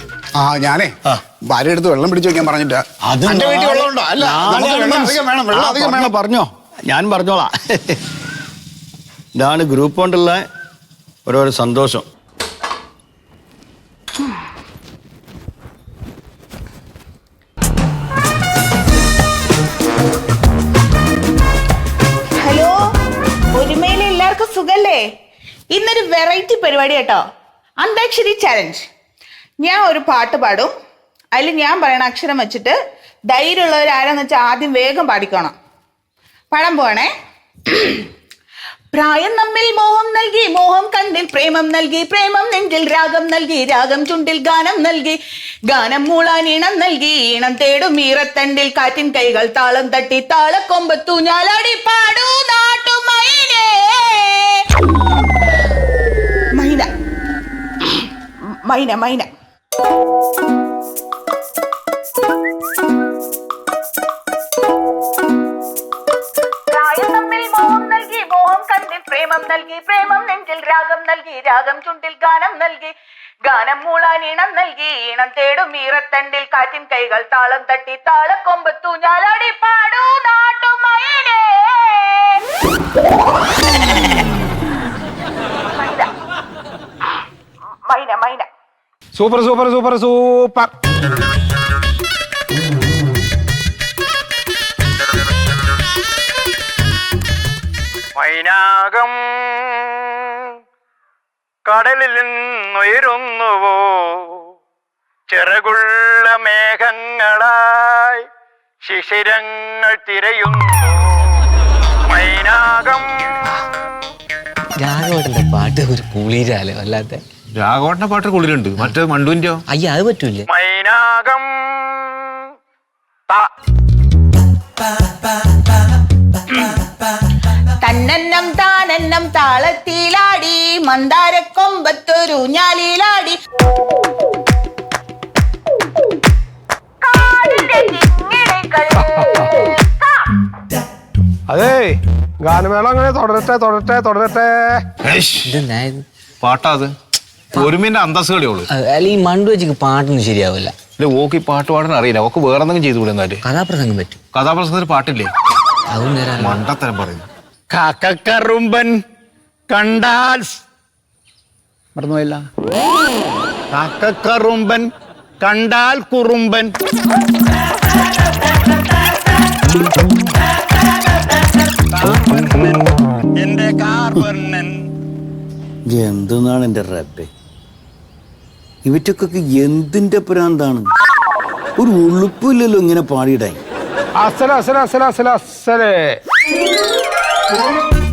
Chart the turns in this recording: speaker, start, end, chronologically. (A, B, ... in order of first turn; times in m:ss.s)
0:00.4-0:00.9 A
0:01.5-0:06.2 A
0:03.1-0:08.0 B
0:09.4-0:10.4 B
0:11.2-0:12.0 B
0:22.4-0:22.8 C
0:23.5-0:25.0 C
0:25.7-0:27.2 C
0:27.8-0:28.8 C
0:29.6-0:30.7 C
0:31.3-0:32.8 C
0:33.3-0:35.5 C
0:36.5-0:37.1 C
0:37.7-0:38.1 C
0:38.9-0:54.6 C
0:56.6-0:56.9 C
0:57.8-0:59.3 C
1:06.7-1:12.9 C
1:13.4-1:22.4 C
1:25.8-1:26.1 C
1:27.8-1:28.5 C
1:29.1-1:30.7 D
1:38.2-1:40.5 D
1:41.6-1:44.4 D
1:45.3-1:48.2 D
1:48.8-1:51.4 D
1:52.1-1:53.3 D
1:54.8-1:57.2 E
1:57.5-1:59.6 F
1:59.7-2:00.4 E
2:00.5-2:02.4 D
2:07.8-2:13.4 C
2:17.0-2:20.4 C
2:21.5-2:24.8 D
2:25.0-2:25.6 F
2:25.4-2:26.0 E
2:26.4-2:26.9 F
2:27.5-2:28.7 F
2:28.7-2:30.8 E
2:31.0-2:33.4 F
2:33.4-2:34.2 E
2:34.3-2:35.3 F
2:35.9-2:36.6 E
2:36.4-2:37.3 F
2:37.7-2:39.0 D
2:39.7-2:40.6 D
2:42.0-2:42.4 D
2:43.7-2:44.9 D
2:45.4-2:46.7 D
2:51.9-2:52.8 D
2:53.4-2:54.8 D
2:55.9-2:57.3 B
2:58.8-3:00.9 B
3:01.8-3:03.6 B
3:04.2-3:06.2 D